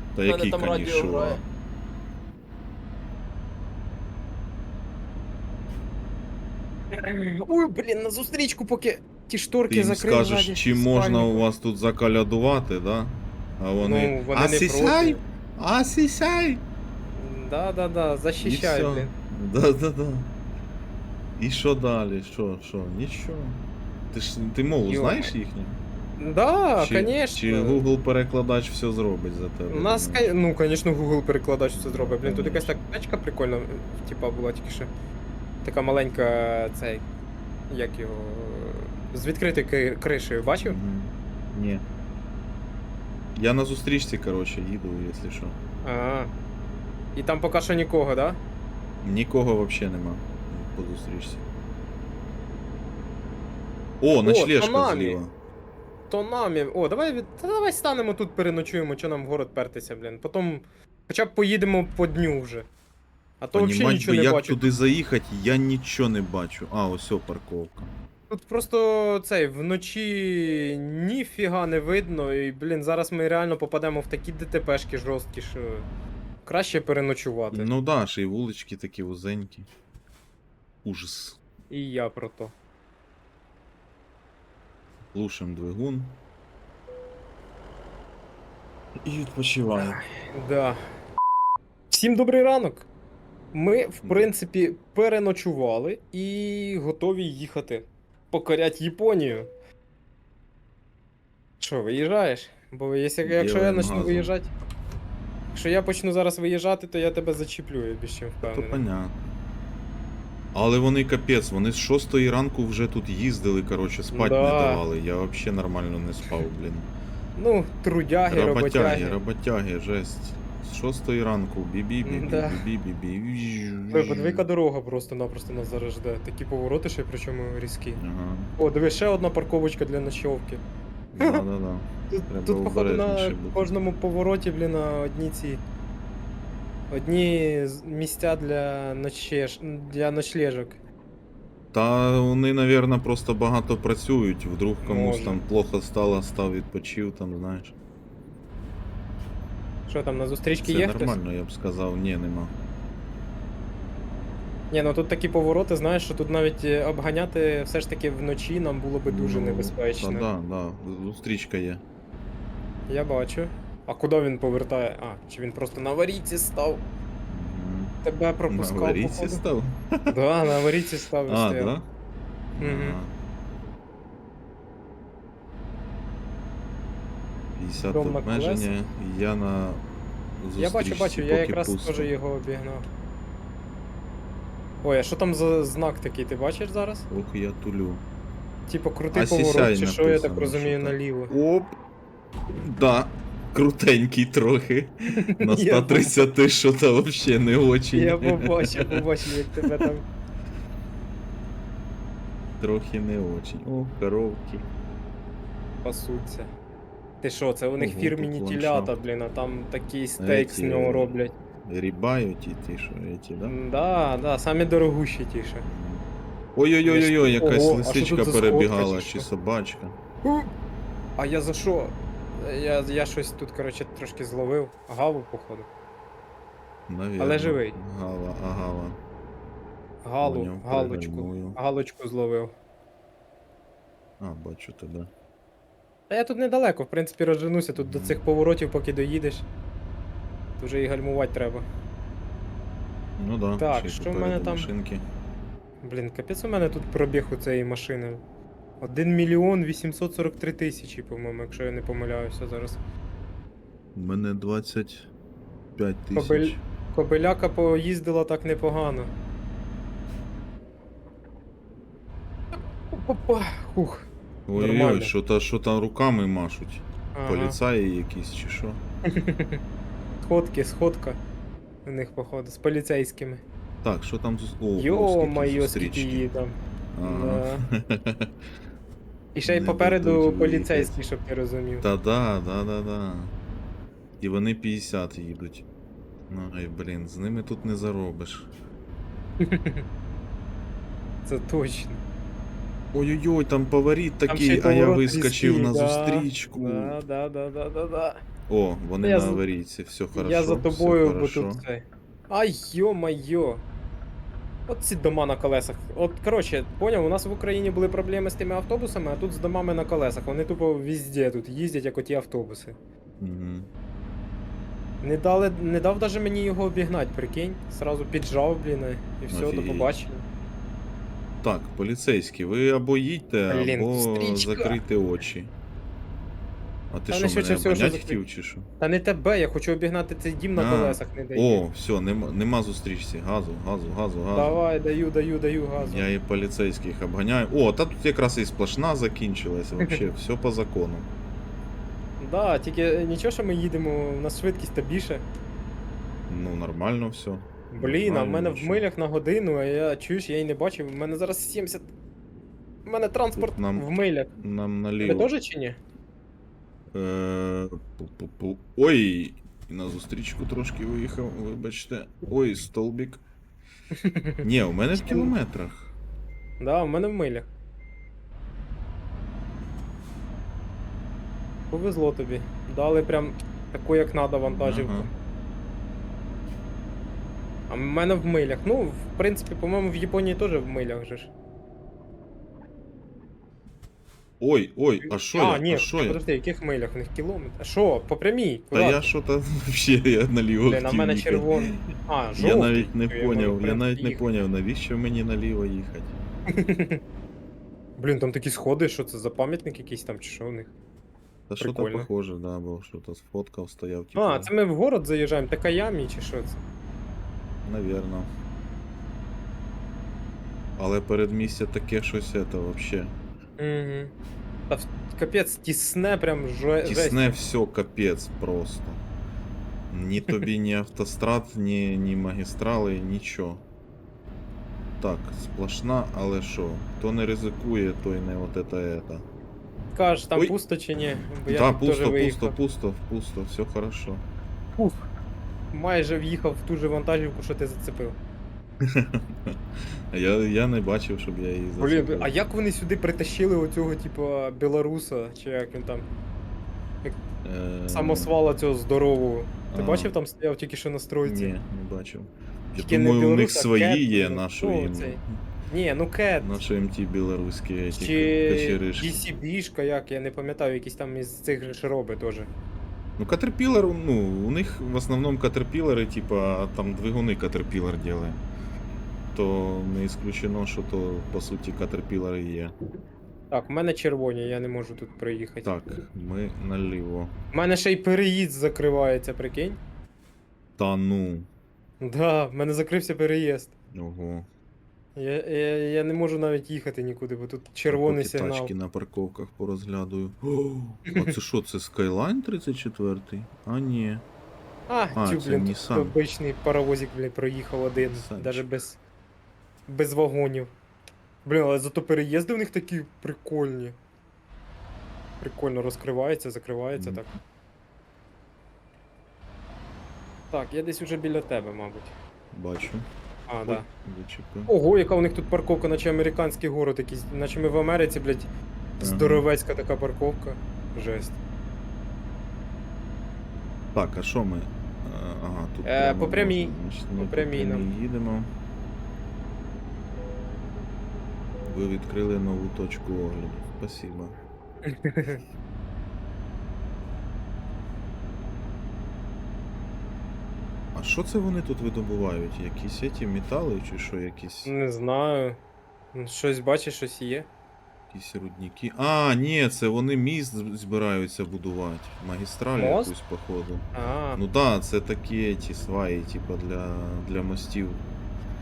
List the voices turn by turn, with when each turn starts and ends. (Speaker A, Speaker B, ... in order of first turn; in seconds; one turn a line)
Speaker A: 0.1-1.4
Speaker B: 0.2-1.4
Speaker B: 6.9-11.5
Speaker A: 9.7-16.6
Speaker B: 13.8-15.2
Speaker B: 17.1-19.1
Speaker A: 18.4-20.3
Speaker A: 21.4-25.8
Speaker B: 24.9-25.3
Speaker B: 26.2-27.8
Speaker A: 26.8-30.3
Speaker B: 29.7-34.9
Speaker A: 31.7-32.8
Speaker B: 35.6-37.0
Speaker B: 37.7-40.8
Speaker A: 40.6-41.8
Speaker A: 43.4-45.5
Speaker B: 45.8-46.3
Speaker B: 47.1-48.4
Speaker A: 49.0-51.4
Speaker A: 54.0-55.3
Speaker B: 54.2-55.2
Speaker B: 56.1-62.7
Speaker B: 63.4-64.7
Speaker A: 63.5-67.9
Speaker B: 68.3-75.9
Speaker B: 76.4-77.7
Speaker A: 77.5-79.7
Speaker A: 80.8-81.4
Speaker B: 81.7-82.5
Speaker A: 85.1-86.2
Speaker A: 89.0-90.0
Speaker B: 89.7-90.8
Speaker B: 91.9-92.9
Speaker B: 93.5-99.5
Speaker A: 94.0-94.3
Speaker B: 101.6-104.5
Speaker A: 103.2-104.3
Speaker B: 105.5-108.8
Speaker A: 108.4-109.2
Speaker A: 110.5-116.9
Speaker B: 114.1-114.8
Speaker B: 117.4-119.2
Speaker A: 118.3-124.5
Speaker B: 122.0-122.6
Speaker B: 123.9-128.0
Speaker A: 128.0-128.5
Speaker B: 128.6-130.6
Speaker A: 131.1-133.7
Speaker B: 132.1-135.6
Speaker B: 136.9-140.8
Speaker A: 141.7-147.7
Speaker B: 144.8-145.4
Speaker B: 149.9-151.2
Speaker A: 150.6-152.5
Speaker B: 154.7-160.3
Speaker A: 159.1-161.8
Speaker B: 162.9-166.9
Speaker A: 167.3-167.9
Speaker B: 168.0-169.4
Speaker A: 168.5-170.2
Speaker B: 170.1-171.7
Speaker A: 171.3-171.9
Speaker A: 172.6-173.1
Speaker B: 172.6-173.0
Speaker A: 177.6-179.8
Speaker B: 177.8-178.7
Speaker A: 180.4-182.1
Speaker B: 180.6-182.8
Speaker B: 184.8-187.1
Speaker A: 187.1-188.0
Speaker B: 188.7-191.3
Speaker A: 189.1-191.7
Speaker A: 192.5-199.9
Speaker B: 195.2-196.2
Speaker B: 197.9-200.0
Speaker A: 202.6-204.7
Speaker B: 205.8-206.5
Speaker B: 207.2-211.3
Speaker A: 207.8-208.9
Speaker A: 210.2-211.1
Speaker A: 211.6-213.6
Speaker B: 213.5-215.7
Speaker A: 215.6-220.0
Speaker B: 216.8-219.3
Speaker B: 220.2-220.5
Speaker B: 221.2-225.7
Speaker A: 226.9-229.0
Speaker B: 227.2-227.8
Speaker B: 230.0-232.5
Speaker A: 230.2-231.6
Speaker A: 234.2-235.1
Speaker B: 236.1-239.4
Speaker A: 237.7-238.2
Speaker B: 240.6-241.7
Speaker A: 243.2-245.0
Speaker B: 243.6-244.7
Speaker B: 245.8-248.2
Speaker B: 248.8-252.8
Speaker A: 253.9-255.1
Speaker A: 255.8-256.6
Speaker B: 256.1-259.1
Speaker B: 262.9-265.1
Speaker A: 264.5-268.8
Speaker B: 267.1-267.6
Speaker B: 269.0-269.6
Speaker B: 270.2-271.2
Speaker B: 271.8-273.4
Speaker A: 273.8-276.3
Speaker B: 274.8-277.6
Speaker A: 276.9-278.3
Speaker B: 279.3-281.9
Speaker A: 279.4-280.9
Speaker A: 281.8-283.3
Speaker A: 284.2-285.6
Speaker A: 286.3-288.5
Speaker B: 289.4-289.8
Speaker B: 291.2-292.0
Speaker A: 292.9-297.0
Speaker B: 294.3-298.2
Speaker A: 298.5-301.6
Speaker B: 299.0-299.4
Speaker B: 300.1-303.6
Speaker B: 304.7-312.8
Speaker A: 313.2-313.7
Speaker B: 315.0-320.2
Speaker A: 319.3-319.9
Speaker A: 321.4-325.5
Speaker B: 323.5-324.8
Speaker A: 326.9-328.7
Speaker B: 327.1-328.2
Speaker B: 328.8-331.6
Speaker A: 330.6-334.6
Speaker B: 334.3-336.1
Speaker A: 335.8-341.1
Speaker B: 342.2-345.2
Speaker A: 346.3-348.8
Speaker B: 347.7-351.9
Speaker B: 352.9-354.3
Speaker A: 353.3-355.3
Speaker B: 355.0-355.8
Speaker A: 356.9-363.2
Speaker B: 363.9-364.4
Speaker A: 364.4-365.9
Speaker B: 365.0-365.3
Speaker B: 366.6-367.5
Speaker B: 371.7-375.1
Speaker A: 374.4-375.1
Speaker B: 377.7-381.3
Speaker A: 384.4-386.2
Speaker B: 385.0-389.1
Speaker A: 388.7-396.1
Speaker B: 390.7-394.2
Speaker B: 396.5-397.0
Speaker B: 398.0-400.7
Speaker A: 401.5-404.5
Speaker B: 401.6-402.1
Speaker B: 404.1-406.6
Speaker A: 407.6-408.3
Speaker A: 410.8-413.1
Speaker B: 413.6-414.1
Speaker B: 414.7-417.3
Speaker A: 416.8-419.0
Speaker A: 419.9-423.6
Speaker A: 425.0-429.2
Speaker B: 429.9-432.6
Speaker A: 431.5-434.2
Speaker B: 434.8-435.1
Speaker B: 435.7-438.2
Speaker A: 438.8-439.6
Speaker A: 440.1-442.3
Speaker B: 441.8-446.1
Speaker A: 447.4-448.3
Speaker B: 447.9-451.5
Speaker A: 449.7-450.1
Speaker A: 451.2-455.4
Speaker B: 452.8-456.6
Speaker A: 456.4-459.2
Speaker B: 457.9-462.5
Speaker A: 463.2-468.4
Speaker A: 469.3-472.7
Speaker B: 473.5-475.7
Speaker A: 475.6-477.3
Speaker B: 477.5-479.8
Speaker A: 480.8-481.5
Speaker B: 482.0-483.7
Speaker A: 483.9-484.5
Speaker B: 485.1-488.7
Speaker A: 487.9-494.2
Speaker B: 494.9-499.0
Speaker A: 495.1-496.2
Speaker A: 497.9-498.7
Speaker B: 499.9-500.7
Speaker B: 501.4-504.0
Speaker B: 505.4-507.2
Speaker A: 506.9-507.3
Speaker B: 510.5-512.1
Speaker A: 512.5-513.1
Speaker B: 513.5-513.9
Speaker A: 513.6-514.7
Speaker B: 514.7-521.4
Speaker A: 519.0-519.5
Speaker A: 523.9-528.5
Speaker B: 525.8-527.9
Speaker A: 531.6-534.3
Speaker B: 534.9-535.4
Speaker A: 540.9-544.7
Speaker B: 544.6-545.6
Speaker B: 546.1-547.5
Speaker A: 548.1-558.1
Speaker B: 552.8-553.1
Speaker B: 553.9-554.4